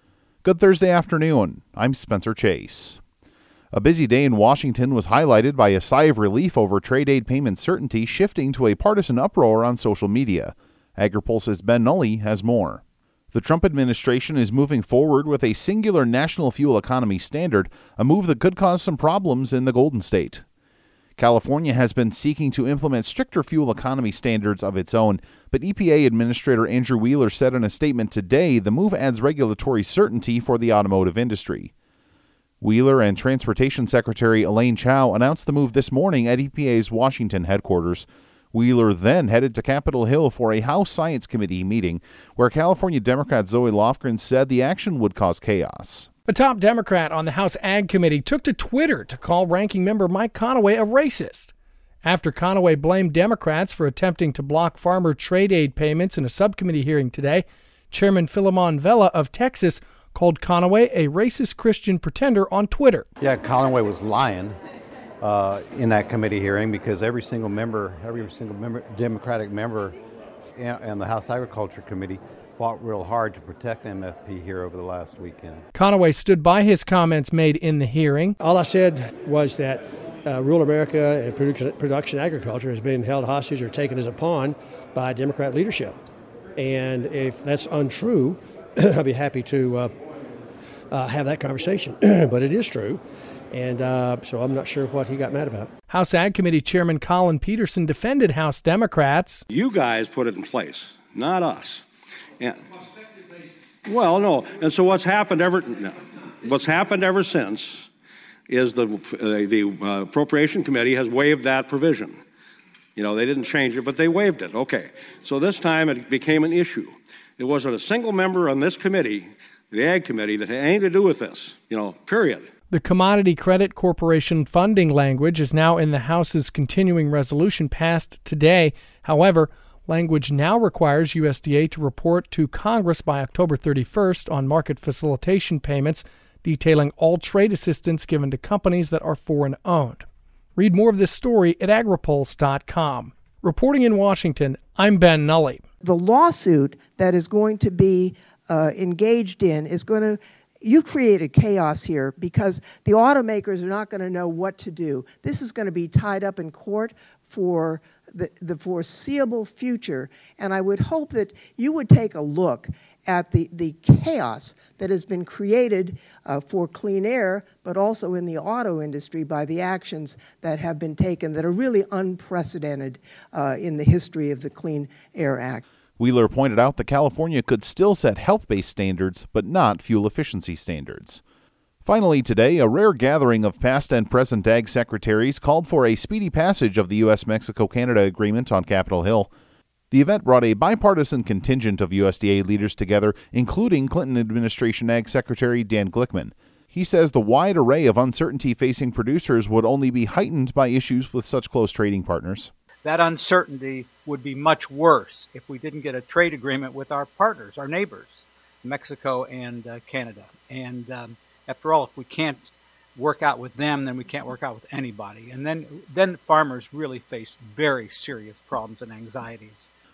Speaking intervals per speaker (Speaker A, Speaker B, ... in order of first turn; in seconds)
Speaker A: 0.4-3.0, 3.7-20.4, 21.2-31.7, 32.6-46.1, 176.0-181.2, 181.8-189.3, 189.9-202.5
Speaker B: 46.3-51.5, 52.0-63.1, 75.8-78.4, 95.9-99.4, 122.7-145.6
Speaker C: 63.2-64.6, 65.2-70.0, 70.6-75.7
Speaker D: 78.4-86.0, 86.6-89.9, 90.9-95.7
Speaker E: 99.5-101.9, 103.9-107.9, 108.5-112.2, 113.0-122.5
Speaker F: 145.8-175.6
Speaker G: 202.8-219.7